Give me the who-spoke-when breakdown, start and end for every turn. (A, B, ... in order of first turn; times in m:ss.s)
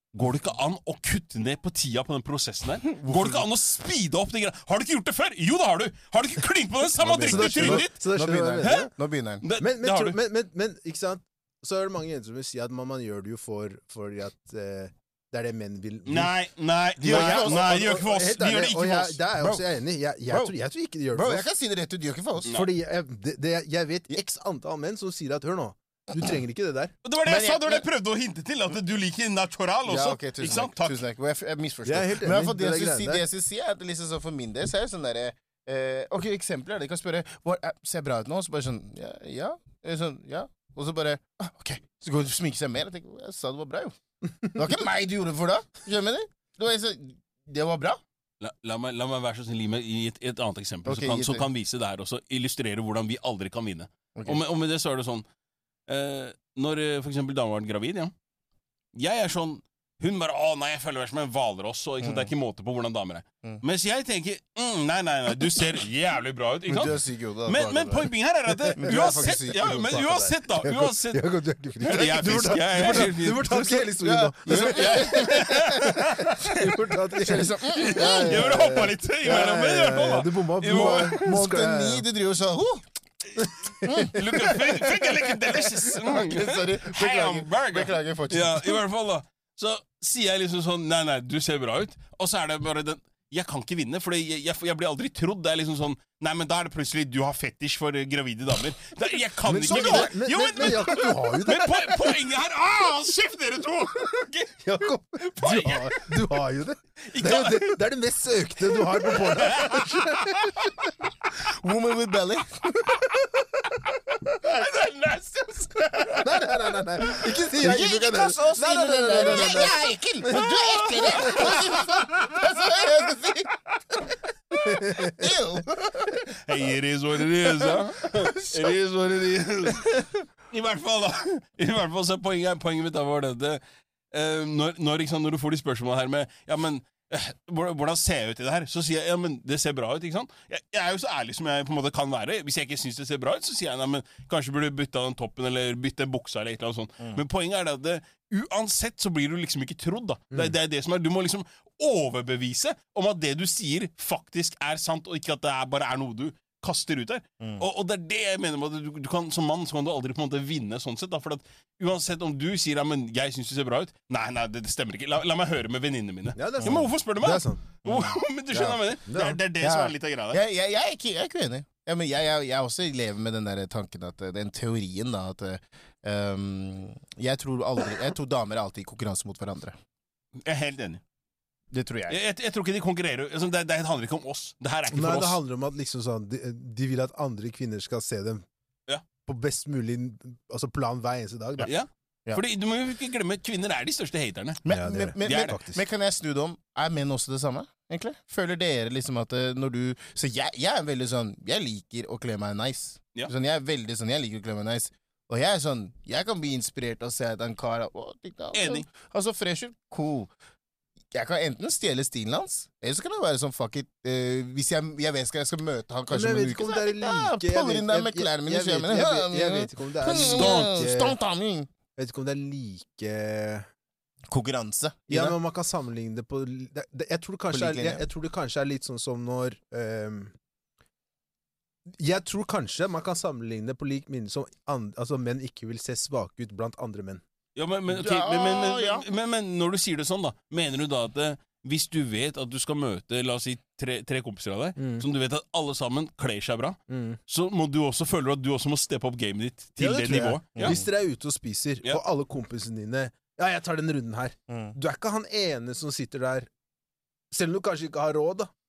0:00.1-0:07.9 A
0:03.0-0:03.4 B
0:07.0-0:09.4 B
0:07.2-0:08.9 C
0:08.6-0:08.9 A
0:09.4-0:10.2 A
0:09.6-0:16.3 C
0:16.0-0:19.2 A
0:17.0-0:21.4 C
0:17.0-0:17.7 B
0:19.4-0:19.6 B
0:20.3-0:20.5 B
0:21.1-0:22.5 B
0:22.4-0:22.7 A
0:22.4-0:26.9 C
0:27.0-0:31.0 A
0:27.2-0:27.9 B
0:29.8-0:44.0 B
0:31.8-0:33.2 C
0:44.5-0:48.0 B
0:48.4-0:55.2 A
0:50.8-0:51.5 B
0:54.1-0:54.4 B
0:55.9-0:58.1 A
0:58.9-1:11.2 A
1:02.0-1:02.3 B
1:06.7-1:08.1 B
1:08.5-1:22.0 C
1:08.8-1:09.7 B
1:11.8-1:13.8 A
1:14.0-1:15.7 B
1:14.5-1:16.7 A
1:17.2-1:18.6 B
1:17.7-1:21.4 A
1:20.7-1:22.8 B
1:23.4-1:24.1 C
1:23.8-1:28.8 B
1:24.1-1:44.6 A
1:39.4-1:42.0 C
1:39.6-1:40.1 B
1:44.6-1:50.7 C
1:45.2-1:46.2 A
1:47.1-1:47.8 A
1:48.8-1:50.7 A
1:51.4-1:53.0 B
1:54.4-1:56.3 A
1:56.2-2:00.5 C
1:57.2-2:03.5 B
1:59.3-1:59.6 A
2:00.4-2:02.8 A
2:01.2-2:01.5 C
2:04.6-2:05.3 C
2:04.8-2:06.3 B
2:06.4-2:13.6 A
2:08.1-2:08.6 B
2:14.1-2:50.4 A
2:46.4-2:47.6 C
2:46.6-2:46.9 B
2:47.8-2:48.8 B
2:49.0-2:49.4 C
2:49.6-2:59.8 B
3:00.4-3:01.0 A
3:01.7-3:02.2 B
3:02.1-3:05.4 A
3:04.9-3:08.4 C
3:09.2-3:11.7 C
3:11.6-3:14.6 A
3:14.6-3:30.3 B
3:14.7-3:15.8 C
3:15.2-3:15.6 A
3:28.5-3:28.8 A
3:31.1-3:41.7 B
3:36.1-3:41.2 C
3:40.1-3:40.8 A
3:42.0-3:43.6 C
3:44.3-3:45.4 B
3:45.1-3:50.3 C
3:47.5-3:48.0 B
3:52.0-3:57.2 C
3:57.6-4:10.8 A
3:57.9-3:59.0 B
4:04.8-4:05.0 C
4:06.9-4:07.2 C
4:09.8-4:16.5 C
4:10.5-4:10.8 B
4:14.5-4:14.7 B
4:17.3-4:18.5 C